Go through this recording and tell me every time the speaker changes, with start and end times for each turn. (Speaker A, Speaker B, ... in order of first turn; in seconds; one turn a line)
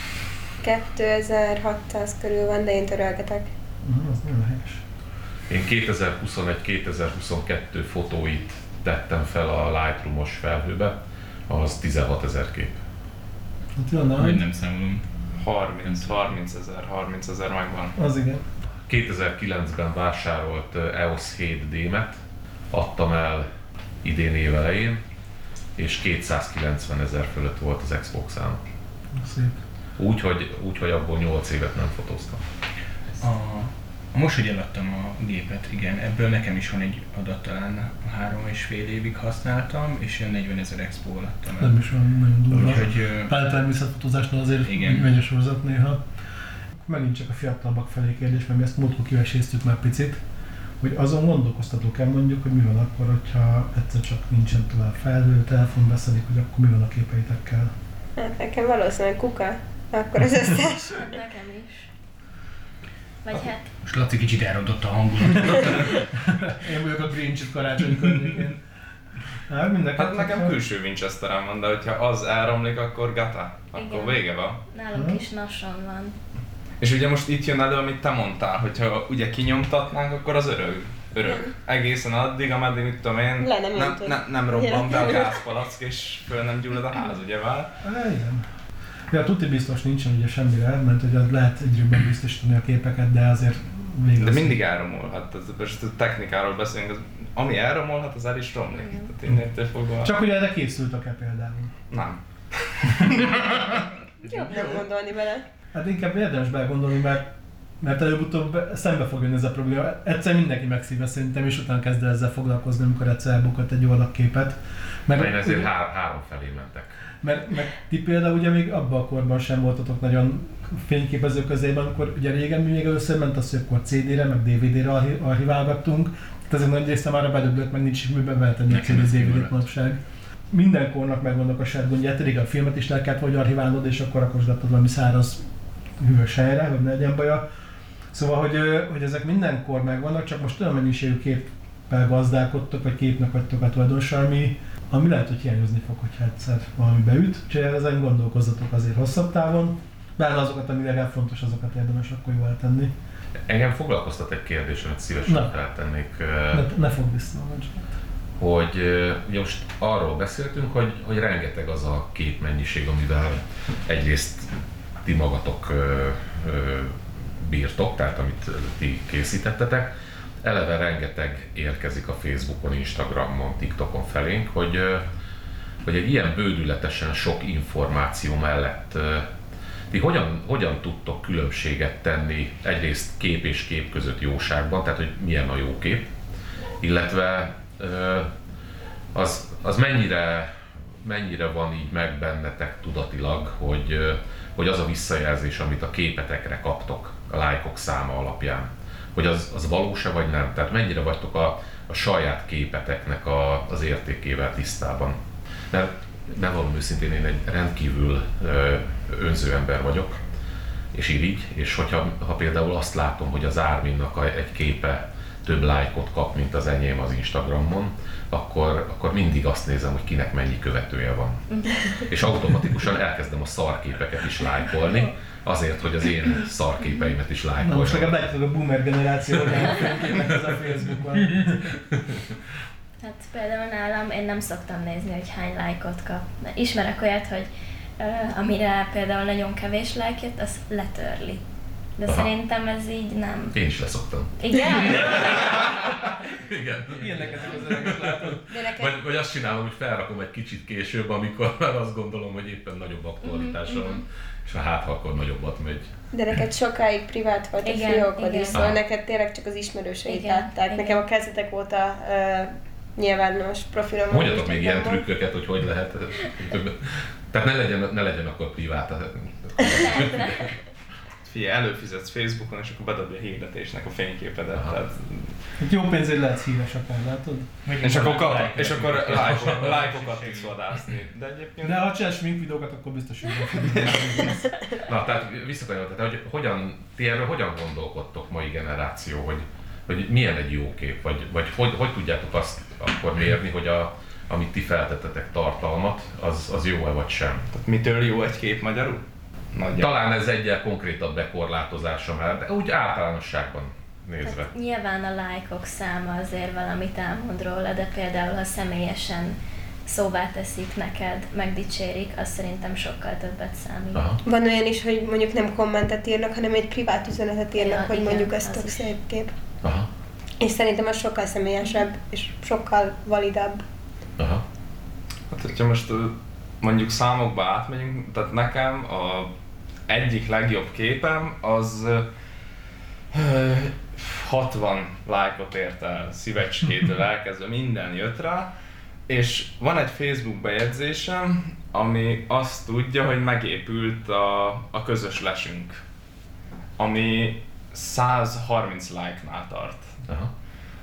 Speaker A: 0.6-3.5
Speaker B: 3.8-4.8
Speaker C: 5.5-11.0
Speaker C: 11.5-12.8
Speaker B: 13.8-14.4
Speaker D: 14.1-15.0
Speaker E: 15.3-17.9
Speaker B: 17.9-18.4
Speaker C: 18.9-23.5
Speaker C: 24.0-25.0
Speaker C: 25.8-28.6
Speaker B: 29.1-29.6
Speaker C: 30.0-32.4
Speaker D: 33.2-41.8
Speaker B: 41.6-46.0
Speaker D: 42.5-43.5
Speaker D: 44.6-45.1
Speaker B: 46.8-50.2
Speaker B: 50.8-57.7
Speaker A: 58.2-61.1
Speaker F: 60.9-61.9
Speaker F: 63.2-63.7
Speaker D: 63.8-66.1
Speaker B: 66.2-68.6
Speaker B: 69.5-70.5
Speaker E: 70.0-74.6
Speaker F: 73.8-76.1
Speaker B: 74.9-75.2
Speaker E: 76.8-87.7
Speaker A: 83.4-85.3
Speaker B: 87.8-88.5
Speaker B: 89.1-94.6
Speaker E: 94.2-100.2
Speaker F: 98.8-99.1
Speaker B: 100.0-101.7
Speaker E: 101.9-103.3
Speaker B: 102.9-103.8
Speaker A: 104.3-105.4
Speaker E: 104.5-104.8
Speaker B: 105.7-107.3
Speaker B: 107.8-115.7
Speaker C: 115.1-117.0
Speaker B: 117.2-135.4
Speaker D: 128.7-129.6
Speaker B: 136.0-137.4
Speaker B: 138.1-152.9
Speaker C: 153.4-156.7
Speaker B: 155.3-155.5
Speaker B: 156.5-157.9
Speaker C: 158.4-175.1
Speaker C: 175.8-179.3
Speaker C: 179.9-186.1
Speaker C: 186.8-188.3
Speaker C: 189.1-205.2
Speaker C: 205.7-210.2
Speaker C: 210.9-228.2
Speaker F: 221.5-221.9
Speaker B: 227.6-231.8
Speaker F: 233.0-237.5
Speaker F: 238.0-241.4
Speaker F: 242.0-243.6
Speaker C: 243.5-255.9
Speaker F: 244.4-245.8
Speaker A: 244.5-245.0
Speaker B: 246.9-248.4
Speaker A: 248.5-248.9
Speaker F: 253.2-254.0
Speaker A: 256.1-265.0
Speaker F: 257.6-258.7
Speaker C: 258.5-258.8
Speaker F: 260.1-261.0
Speaker C: 264.1-270.5
Speaker F: 269.6-270.5
Speaker E: 271.2-275.4
Speaker B: 275.6-277.5
Speaker D: 277.6-280.6
Speaker E: 277.8-281.8
Speaker C: 279.2-279.5
Speaker B: 281.6-284.4
Speaker E: 283.7-284.3
Speaker C: 284.8-297.4
Speaker E: 297.5-299.9
Speaker C: 299.7-304.5
Speaker F: 304.2-314.0
Speaker C: 313.9-314.2
Speaker A: 314.2-319.3
Speaker F: 317.6-318.9
Speaker C: 319.6-319.9
Speaker A: 320.4-323.6
Speaker C: 324.2-324.4
Speaker E: 325.3-329.3
Speaker E: 329.9-332.1
Speaker E: 333.1-338.5
Speaker E: 339.1-345.8
Speaker E: 346.8-349.9